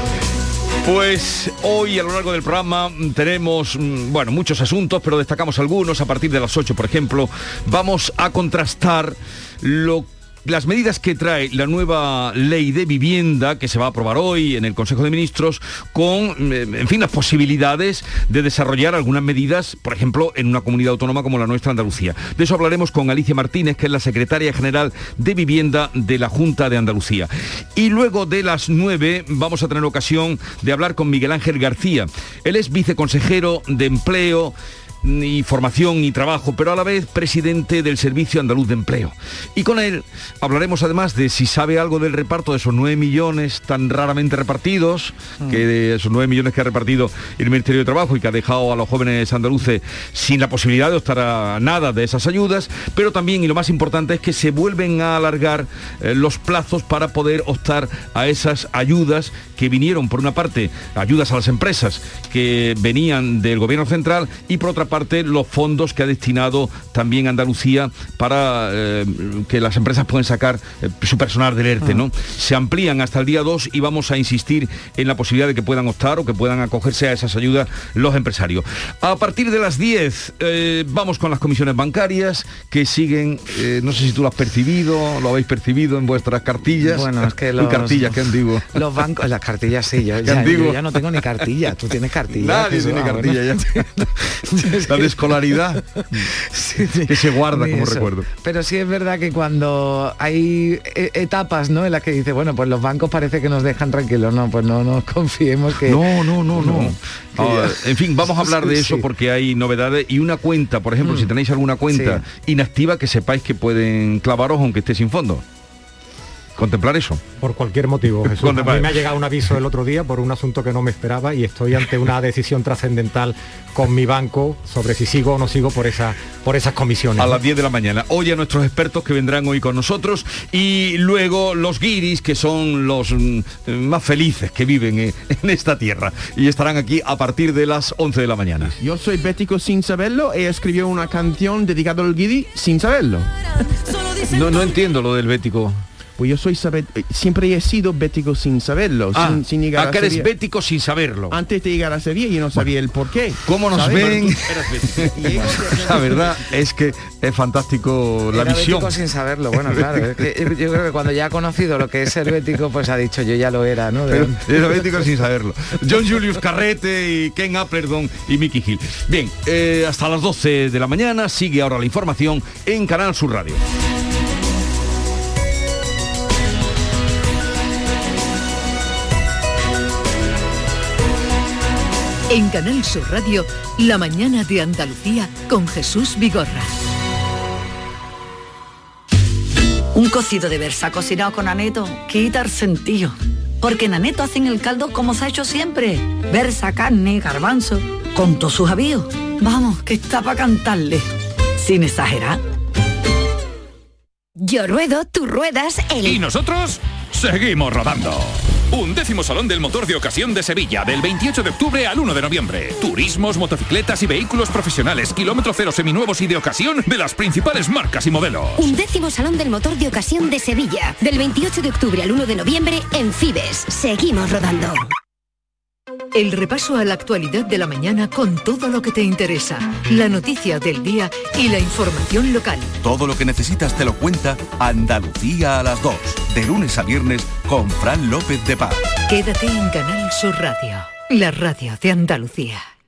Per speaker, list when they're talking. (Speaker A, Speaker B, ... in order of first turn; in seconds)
Speaker A: 0.8-88.7, 90.2-90.8, 92.3-93.8, 94.8-96.3, 97.0-98.2, 105.8-115.4, 116.5-117.2, 118.3-118.9, 127.2-138.8, 144.2-145.8, 149.1-151.4, 153.4-158.9, 164.1-173.6
Speaker B: 86.8-88.2, 88.7-93.9, 94.4-95.3, 96.4-107.7, 111.0-111.3, 111.9-112.2, 158.3-164.8
Speaker C: 117.4-127.4
Speaker D: 138.8-143.3, 146.2-150.3, 151.3-156.4
Speaker E: 182.3-186.7, 226.1-232.7, 239.1-242.6
Speaker F: 189.9-201.1, 201.6-202.4
Speaker G: 204.4-206.2, 218.6-224.9
Speaker H: 206.1-218.5
Speaker I: 232.8-238.8